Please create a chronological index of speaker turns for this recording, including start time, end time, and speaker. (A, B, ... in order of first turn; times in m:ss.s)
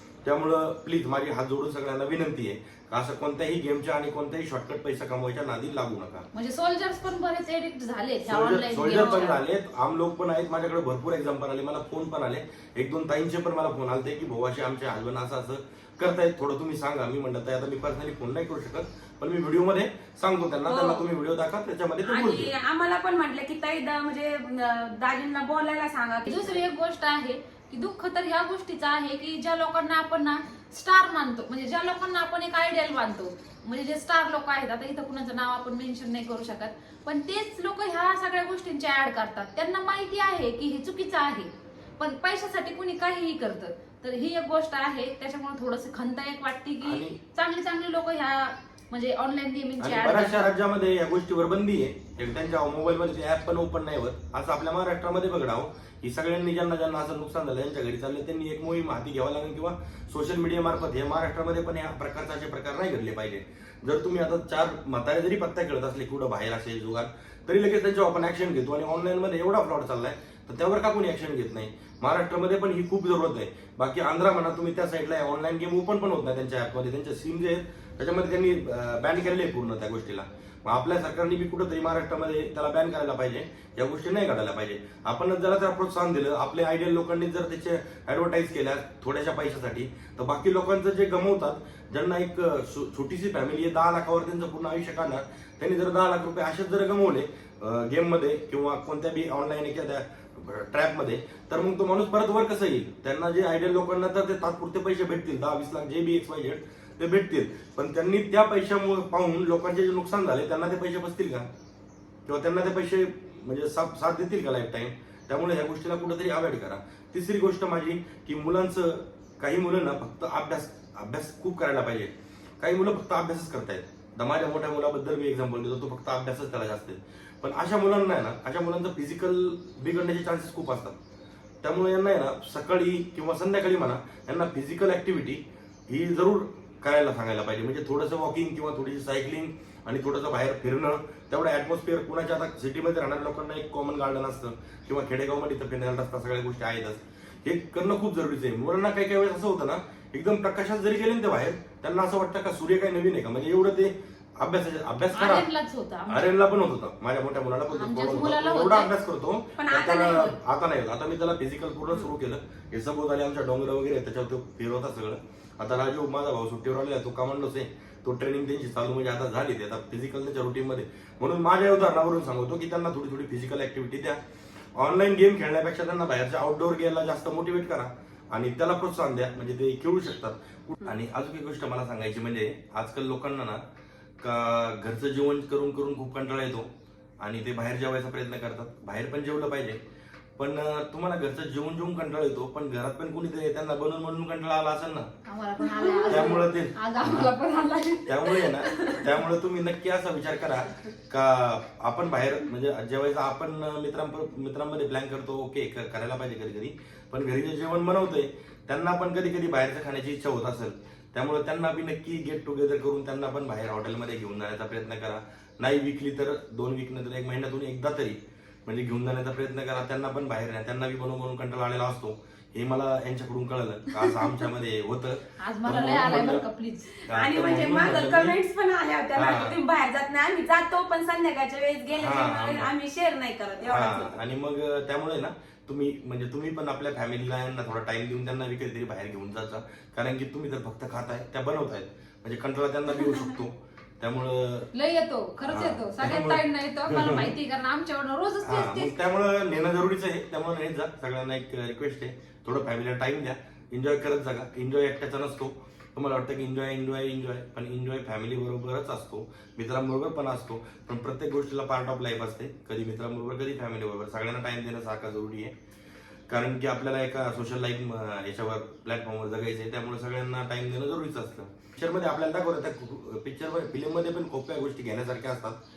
0:00.2-0:06.3 A
0:06.3-0:09.4 B
0:08.3-0:22.5 A
0:08.9-0:09.3 C
0:20.7-0:21.0 C
0:22.0-0:26.6 C
0:26.3-0:50.5 B
0:46.8-0:47.2 A
0:49.8-1:51.5 A
1:52.3-2:11.0 A
2:11.6-2:35.5 A
2:35.2-2:36.4 B
2:36.1-2:54.2 A
2:37.7-2:38.9 B
2:39.6-2:40.4 C
2:54.8-3:03.6 A
3:04.2-3:06.7 A
3:07.2-3:09.8 A
3:10.4-3:15.1 A
3:15.3-3:19.1 B
3:16.1-3:17.3 A
3:18.1-3:46.4 A
3:45.4-3:47.1 B
3:47.1-3:48.4 A
3:47.1-3:54.2 C
3:49.2-3:49.6 A
3:51.9-3:52.7 A
3:53.7-4:04.7 A
4:03.0-4:03.3 B
4:04.7-4:09.0 B
4:05.4-4:07.4 A
4:08.4-4:25.5 A
4:26.3-4:35.6 A